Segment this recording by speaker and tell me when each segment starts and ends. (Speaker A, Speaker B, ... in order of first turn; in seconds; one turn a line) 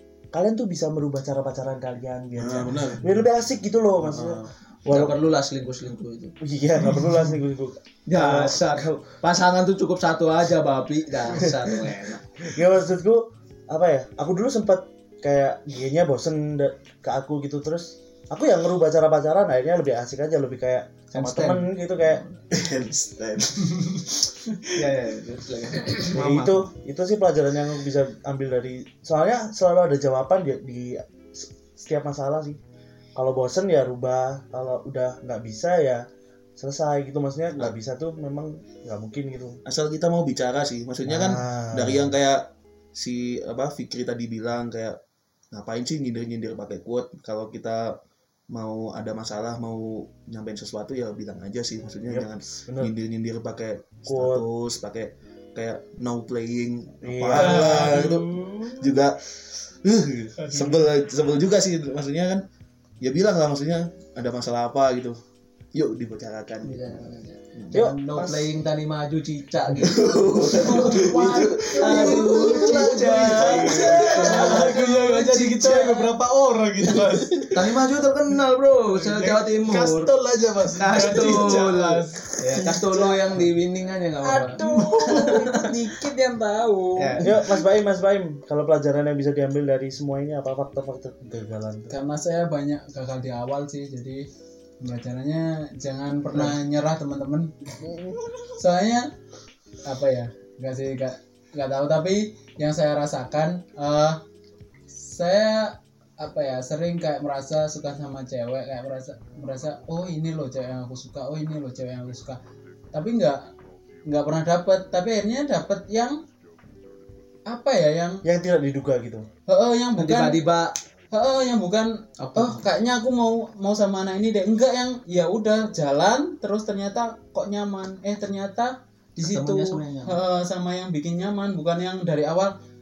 Speaker A: 0.3-5.2
Speaker B: 2.4-3.1
Speaker B: 4.0-4.5
Speaker C: 4.9-6.3
Speaker A: 6.4-9.0
Speaker C: 8.1-12.2
Speaker A: 11.3-11.8
Speaker A: 12.4-22.2
Speaker C: 21.1-22.4
Speaker B: 22.5-24.1
Speaker D: 24.1-24.7
Speaker C: 24.8-26.7
Speaker A: 26.1-32.6
Speaker A: 33.2-36.0
Speaker A: 36.6-39.6
Speaker B: 39.6-42.4
Speaker A: 41.1-42.2
Speaker B: 43.0-45.0
Speaker B: 45.5-48.0
Speaker B: 48.5-62.4
Speaker A: 52.0-52.9
Speaker A: 54.1-54.5
Speaker A: 57.0-58.1
Speaker D: 57.4-59.0
Speaker D: 60.4-60.8
Speaker B: 63.0-65.2
Speaker B: 65.7-67.8
Speaker C: 66.6-76.0
Speaker A: 67.7-68.5
Speaker B: 69.8-74.3
Speaker E: 70.6-75.1
Speaker D: 71.8-77.8
Speaker E: 75.6-76.0
Speaker C: 77.5-80.1
Speaker D: 78.9-82.7
Speaker C: 80.8-85.7
Speaker E: 82.6-83.4
Speaker E: 84.2-87.3
Speaker D: 84.6-85.5
Speaker C: 87.0-87.3
Speaker A: 87.2-91.9
Speaker E: 91.9-94.3
Speaker E: 94.8-97.8
Speaker A: 97.8-98.2
Speaker E: 98.5-99.1
Speaker E: 99.8-104.2
Speaker E: 104.9-112.4
Speaker E: 112.9-113.5
Speaker E: 114.1-116.2
Speaker E: 117.5-118.2
Speaker A: 118.2-119.3
Speaker E: 119.5-120.4
Speaker C: 120.0-120.7
Speaker E: 121.1-132.5
Speaker C: 122.2-122.7
Speaker C: 129.2-130.2